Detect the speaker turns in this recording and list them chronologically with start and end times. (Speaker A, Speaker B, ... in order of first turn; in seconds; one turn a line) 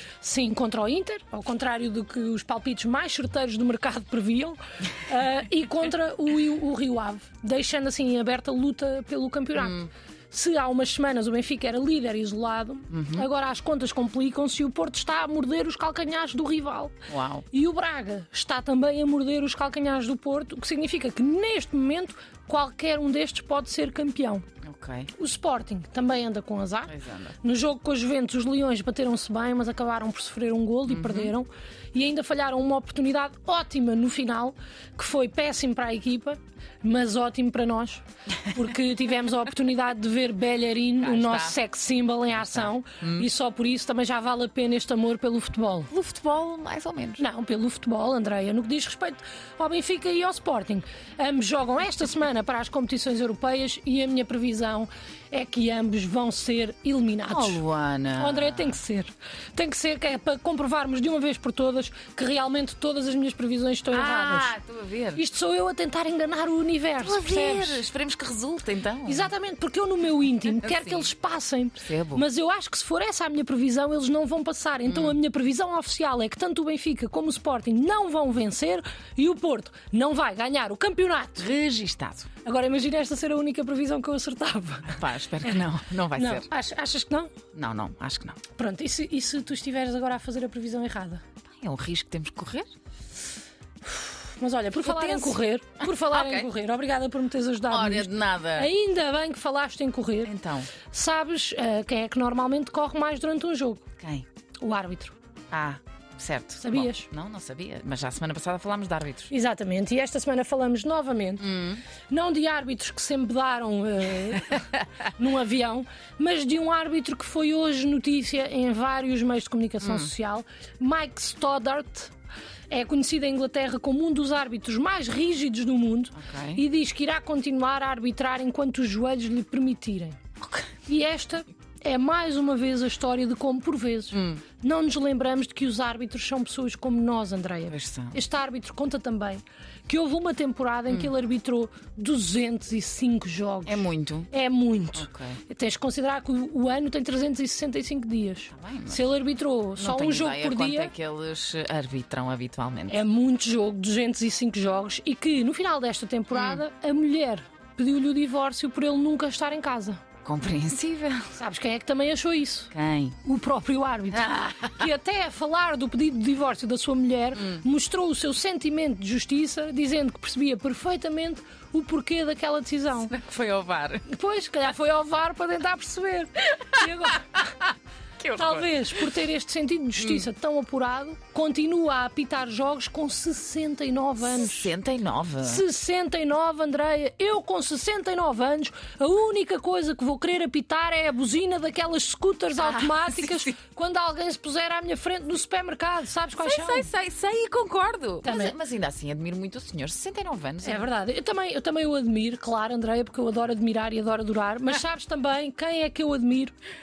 Speaker A: 0.2-16.9
Speaker B: 9.5-9.9
Speaker B: 12.9-13.3
Speaker B: 17.1-17.4
Speaker A: 17.5-24.5
Speaker B: 24.6-25.1
Speaker A: 25.1-45.9
Speaker B: 26.9-27.4
Speaker B: 30.9-31.3
Speaker B: 41.0-41.6
Speaker B: 42.3-43.3
Speaker B: 45.9-47.2
Speaker A: 47.2-57.6
Speaker B: 57.3-58.8
Speaker A: 58.2-64.5
Speaker B: 63.9-65.2
Speaker A: 65.1-67.8
Speaker B: 67.0-69.3
Speaker A: 69.0-81.5
Speaker B: 70.6-71.1
Speaker B: 71.8-72.2
Speaker B: 74.8-75.2
Speaker B: 81.4-82.3
Speaker A: 82.4-85.0
Speaker B: 84.9-86.5
Speaker A: 86.2-87.3
Speaker B: 87.5-88.4
Speaker A: 88.5-91.2
Speaker B: 91.6-92.7
Speaker A: 93.8-100.3
Speaker B: 94.8-96.5
Speaker B: 97.7-98.7
Speaker B: 100.2-100.7
Speaker A: 100.8-103.8
Speaker B: 104.0-104.2
Speaker A: 104.6-105.2
Speaker B: 105.5-109.3
Speaker A: 106.6-107.1
Speaker A: 109.3-111.5
Speaker B: 111.4-111.8
Speaker A: 112.1-122.1
Speaker B: 119.8-120.1
Speaker A: 122.7-130.2
Speaker B: 126.1-126.6
Speaker B: 130.4-130.7
Speaker A: 130.8-150.9
Speaker B: 134.1-134.4
Speaker B: 137.7-138.2
Speaker B: 143.7-144.3
Speaker B: 144.9-145.4
Speaker B: 148.5-149.1
Speaker B: 149.8-153.0
Speaker A: 152.9-160.0
Speaker B: 156.3-156.6
Speaker B: 160.2-161.3
Speaker A: 161.3-162.7
Speaker B: 162.7-163.2
Speaker A: 163.2-173.1
Speaker B: 164.1-164.9
Speaker B: 173.0-174.1
Speaker A: 174.1-177.4
Speaker B: 178.2-178.7
Speaker A: 178.3-184.7
Speaker B: 180.0-180.2
Speaker B: 184.2-185.6
Speaker A: 185.4-196.9
Speaker B: 192.6-193.5
Speaker B: 196.4-200.9
Speaker A: 198.2-198.6
Speaker A: 200.6-206.5